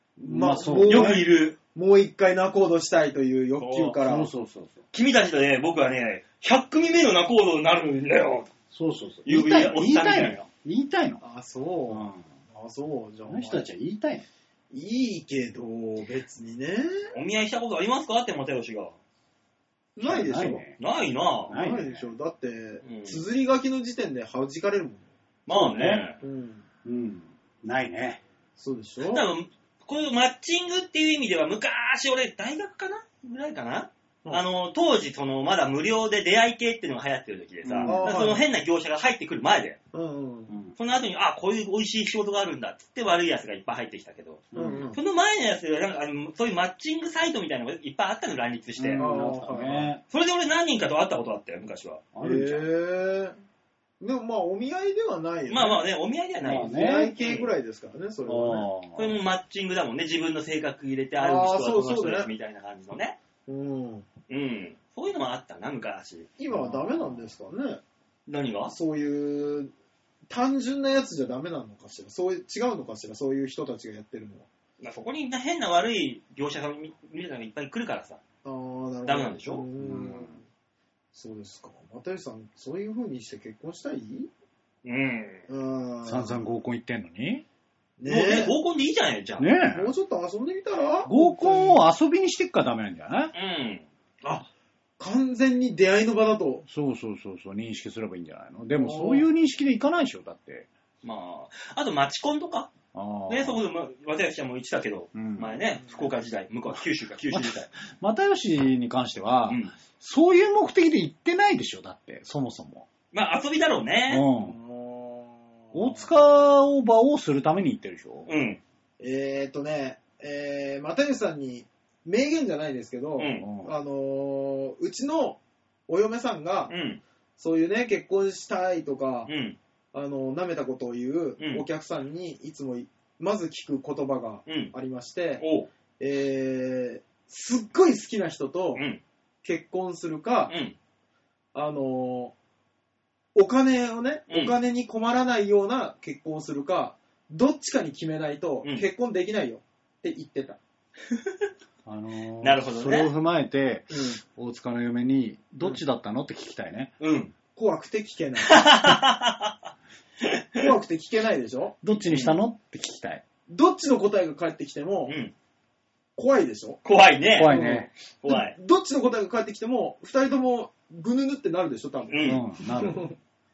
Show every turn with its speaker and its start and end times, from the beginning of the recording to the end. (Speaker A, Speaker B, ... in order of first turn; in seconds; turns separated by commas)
Speaker A: 0.2-4.3, Speaker B: 0.2-1.2, Speaker C: 0.8-1.6, Speaker C: 3.6-4.0, Speaker B: 4.0-4.8, Speaker C: 4.9-8.5, Speaker B: 8.7-11.2, Speaker C: 9.3-10.4, Speaker A: 11.2-13.7, Speaker B: 11.9-12.2, Speaker B: 13.3-14.3, Speaker A: 14.7-17.1, Speaker C: 17.1-19.0, Speaker A: 20.0-20.7, Speaker B: 20.0-20.8, Speaker C: 20.8-21.6, Speaker B: 21.5-22.1, Speaker A: 21.5-25.1, Speaker C: 22.8-23.2, Speaker C: 25.5-26.2, Speaker B: 25.5-26.0, Speaker A: 26.2-26.6, Speaker B: 26.8-28.2, Speaker A: 28.6-29.2, Speaker C: 29.1-39.8, Speaker B: 37.6-38.1, Speaker A: 37.8-38.5, Speaker A: 39.9-40.5, Speaker B: 40.5-40.8, Speaker C: 40.8-49.1, Speaker B: 44.5-44.9, Speaker A: 44.5-45.0, Speaker B: 48.8-50.0, Speaker A: 49.0-49.9, Speaker C: 50.1-52.0, Speaker B: 52.1-52.7, Speaker A: 52.2-53.4, Speaker A: 54.0-55.8, Speaker C: 55.5-57.5, Speaker B: 56.5-57.1, Speaker A: 56.6-58.7, Speaker B: 58.3-59.2, Speaker C: 59.0-63.2, Speaker A: 61.2-62.3, Speaker A: 63.5-64.1, Speaker C: 64.3-66.3, Speaker A: 66.4-67.8, Speaker B: 66.5-67.3, Speaker C: 68.3-68.7, Speaker A: 68.7-69.7, Speaker A: 70.3-74.5, Speaker C: 74.8-78.2, Speaker A: 78.4-80.4, Speaker C: 79.0-79.6, Speaker B: 79.8-80.3, Speaker A: 81.1-84.3, Speaker C: 84.8-85.5, Speaker A: 85.5-86.4, Speaker B: 86.0-87.5, Speaker A: 88.0-88.5, Speaker C: 88.1-89.5, Speaker B: 89.4-89.9, Speaker A: 89.7-91.8, Speaker B: 91.0-93.3, Speaker C: 93.3-93.8, Speaker A: 94.2-96.6, Speaker B: 96.7-100.7, Speaker A: 98.8-99.3, Speaker C: 101.0-102.7, Speaker B: 102.9-103.6, Speaker C: 103.3-107.7, Speaker B: 105.2-105.5, Speaker B: 107.3-112.9, Speaker C: 113.1-114.2, Speaker B: 114.1-114.6, Speaker A: 114.4-116.0, Speaker B: 115.7-118.3, Speaker C: 118.3-118.6, Speaker A: 119.0-126.7, Speaker C: 123.2-123.5, Speaker B: 123.4-123.7, Speaker C: 126.7-127.0, Speaker A: 127.4-129.3, Speaker C: 129.3-129.6, Speaker A: 129.9-135.4, Speaker C: 131.4-131.6, Speaker C: 134.5-134.7, Speaker C: 135.4-135.7, Speaker A: 136.0-138.8, Speaker C: 138.8-139.0, Speaker A: 139.4-140.5, Speaker C: 140.5-140.8, Speaker A: 141.5-142.3, Speaker A: 143.3-150.6, Speaker C: 144.3-144.6, Speaker B: 151.8-156.9, Speaker C: 152.4-153.1, Speaker A: 153.9-154.2, Speaker C: 157.0-157.3, Speaker A: 157.6-158.7, Speaker C: 158.4-159.6, Speaker C: 160.3-160.6, Speaker A: 160.6-161.8, Speaker B: 161.8-163.2, Speaker C: 162.1-162.3, Speaker A: 163.5-165.2, Speaker C: 165.1-165.3, Speaker A: 166.2-166.8, Speaker C: 166.8-168.6, Speaker B: 167.3-167.9, Speaker A: 167.4-173.2, Speaker C: 172.1-172.4, Speaker B: 172.2-173.1